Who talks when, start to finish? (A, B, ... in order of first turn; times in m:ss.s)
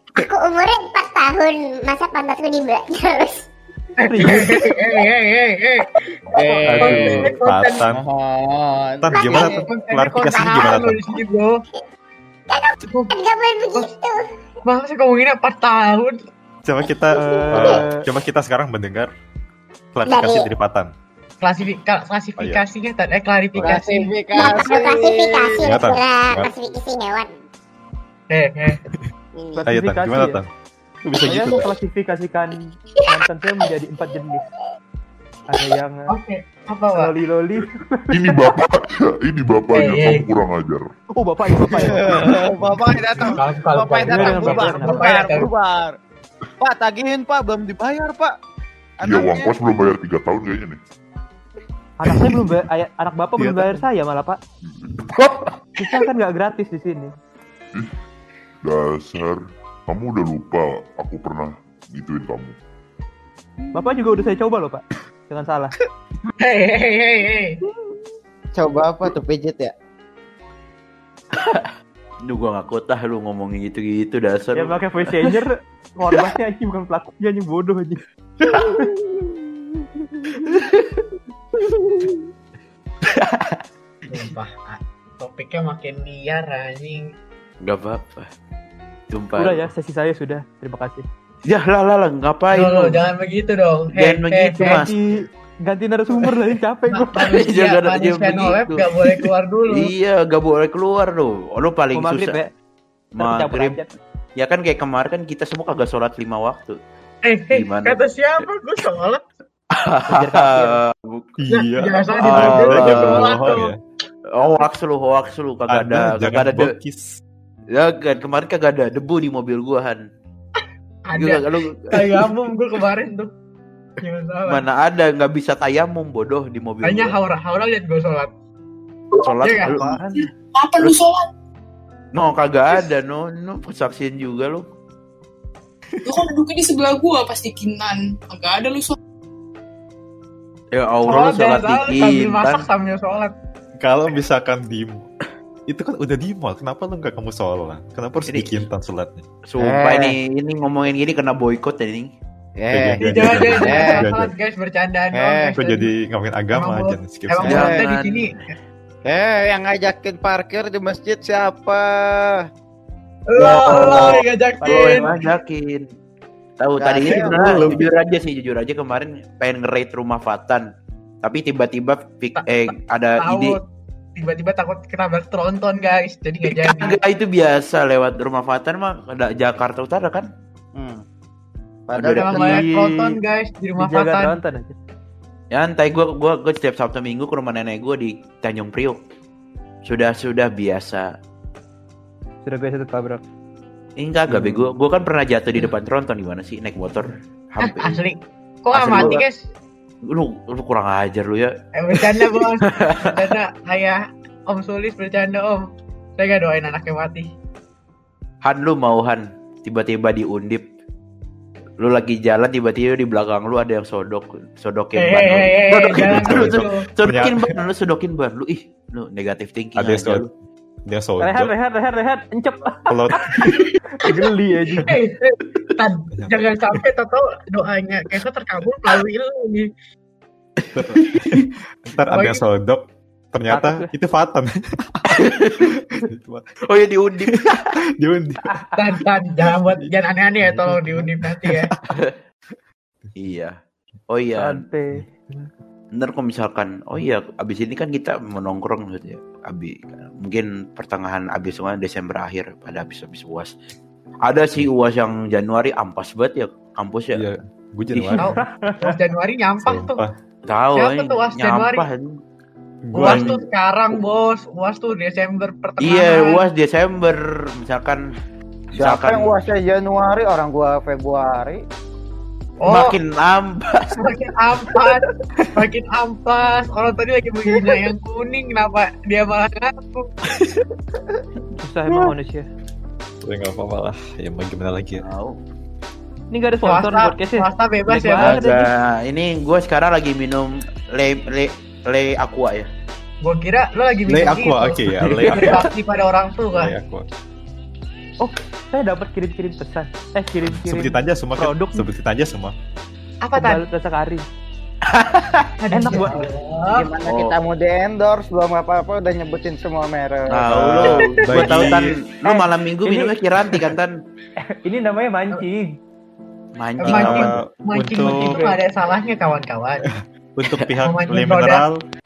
0:00.2-0:03.5 A
0:04.0-0:07.8 B
0:04.0-0:04.7 C
0:06.3-0:07.3 D
0:06.7-0:08.1 E
0:07.9-0:09.6 D
0:09.0-0:11.2 E
0:09.2-0:11.6 B
0:12.5-0:14.3 A
0:12.9-0:13.1 B
0:14.6-0:16.2 B
0:16.6-0:19.1 E
0:17.1-0:18.1 C
0:17.5-0:17.8 A
0:19.9-0:20.9 E
0:20.1-0:20.5 A
0:21.4-0:24.1 B
0:23.6-0:25.7 D
0:24.4-0:27.3 A
0:25.6-0:26.5 E
0:28.3-0:28.8 B
0:29.4-0:29.6 A
0:29.6-0:30.4 C
0:29.7-0:30.5 E
0:31.0-0:31.7 E
0:31.2-0:32.6 C
0:31.2-0:31.6 D
0:33.1-0:34.4 C
0:35.5-0:36.1 C
0:36.1-0:37.1 B
0:37.0-0:38.5 C
0:38.1-0:40.9 F
0:39.7-0:40.3 B
0:41.2-0:43.2 C
0:41.9-0:46.0 D
0:43.3-0:45.5 B
0:44.1-0:45.3 C
0:46.6-0:48.4 D
0:49.0-0:49.5 D
0:49.0-0:50.8 F
0:52.0-0:54.4 C
0:53.4-0:53.8 E
0:54.8-0:55.4 F
0:55.8-0:57.1 C
0:58.6-1:02.6 F
1:03.7-1:05.7 C
1:06.4-1:07.6 B
1:08.6-1:09.7 D
1:11.4-1:11.7 G
1:12.2-1:15.3 G
1:14.5-1:18.0 C
1:18.6-1:18.9 C
1:23.1-1:23.6 G
1:24.1-1:27.0 B
1:27.6-1:28.3 G
1:29.1-1:29.7 G
1:29.4-1:31.1 C
1:31.5-1:33.0 G
1:32.5-1:34.8 B
1:33.9-1:35.0 G
1:34.6-1:37.3 C
1:36.9-1:39.9 B
1:37.2-1:42.4 G
1:41.9-1:42.5 C
1:43.2-1:43.8 G
1:43.2-1:43.9 C
1:44.4-1:46.8 G
1:47.2-1:49.2 B
1:47.5-1:48.0 G
1:49.7-1:51.3 G
1:50.1-1:50.8 C
1:51.4-1:53.8 E
1:51.5-1:53.7 B
1:52.2-1:53.5 G
1:54.3-1:56.7 G
1:55.7-1:57.2 E
1:57.7-2:00.0 G
2:01.1-2:03.3 B
2:01.2-2:02.3 G
2:04.0-2:04.6 B
2:04.5-2:07.2 G
2:06.8-2:08.3 B
2:09.2-2:10.0 G
2:09.4-2:09.8 B
2:09.6-2:10.2 C
2:10.5-2:11.2 H
2:12.1-2:14.6 G
2:16.0-2:19.0 H
2:20.7-2:22.6 G
2:21.1-2:23.3 B
2:23.8-2:25.0 E
2:25.7-2:29.2 E
2:28.3-2:28.6 G
2:29.5-2:32.1 G
2:29.6-2:30.2 D
2:32.6-2:34.1 D
2:32.7-2:34.3 E
2:33.0-2:35.9 B
2:35.2-2:35.6 D
2:35.6-2:37.8 E
2:36.5-2:38.6 B
2:37.5-2:37.8 D
2:37.5-2:38.3 G
2:39.1-2:42.4 D
2:43.3-2:45.2 B
2:43.4-2:45.9 G
2:44.6-2:45.1 C
2:46.6-2:50.7 G
2:46.8-2:47.8 D
2:47.3-2:47.8 E
2:51.2-2:53.6 G
2:53.2-2:53.6 B
2:54.2-2:57.0 B
2:56.5-3:00.3 G
3:00.8-3:01.0 D
3:01.9-3:02.6 D
3:02.0-3:03.2 G
3:02.2-3:04.4 B
3:03.8-3:04.8 C
3:05.5-3:09.0 G
3:09.8-3:11.1 G
3:12.4-3:13.2 C
3:14.0-3:18.0 G
3:14.4-3:14.7 C
3:17.6-3:19.4 B
3:18.7-3:19.2 G
3:20.0-3:23.2 G
3:21.8-3:25.7 B
3:26.2-3:27.3 B
3:28.4-3:30.6 G
3:31.8-3:40.3 G
3:35.0-3:36.9 B
3:35.9-3:37.6 E
3:39.8-3:40.3 E
3:40.9-3:41.5 E
3:41.2-3:43.4 C
3:42.9-3:43.7 E
3:44.0-3:44.9 C
3:44.8-3:49.7 B
3:46.2-3:46.8 E
3:50.6-3:51.4 G
3:50.8-3:56.5 E
3:52.1-3:52.4 B
3:53.5-3:53.9 C
3:55.2-3:55.7 G
3:56.7-3:57.7 G
3:57.2-3:58.5 E
3:58.8-4:01.7 B
4:00.4-4:01.8 E
4:01.9-4:02.2 G
4:03.2-4:03.6 G
4:04.1-4:04.7 G
4:04.4-4:05.0 C
4:06.0-4:13.5 G
4:14.2-4:17.2 G
4:17.1-4:18.3 E
4:18.0-4:18.2 G
4:18.2-4:20.0 B
4:18.3-4:18.9 C
4:19.6-4:20.1 E
4:20.5-4:22.1 G
4:20.8-4:21.9 B
4:22.8-4:23.4 E
4:22.9-4:26.4 B
4:23.0-4:23.4 G
4:25.8-4:28.0 G
4:28.7-4:29.3 G
4:28.8-4:31.6 D
4:32.6-4:33.0 B
4:32.7-4:34.0 G
4:34.0-4:40.1 B
4:41.6-4:42.5 C
4:43.2-4:45.1 E
4:45.0-4:45.4 G
4:46.3-4:48.7 C
4:46.6-4:48.4 B
4:48.2-4:52.7 G
4:53.2-4:56.7 B
4:54.1-4:55.7 E
4:56.6-4:57.1 E
4:58.2-5:01.9 C
5:00.4-5:02.6 E
5:03.2-5:03.6 B
5:03.4-5:04.2 C
5:04.9-5:05.5 G
5:05.6-5:06.9 B
5:05.7-5:06.3 C
5:06.7-5:10.9 D
5:07.0-5:07.3 G
5:10.3-5:14.0 G
5:10.6-5:12.0 E
5:12.3-5:13.2 C
5:14.4-5:15.8 C
5:16.6-5:17.3 G
5:16.8-5:19.8 B
5:16.8-5:18.4 E
5:18.2-5:18.6 C
5:19.9-5:21.8 E
5:20.8-5:21.6 B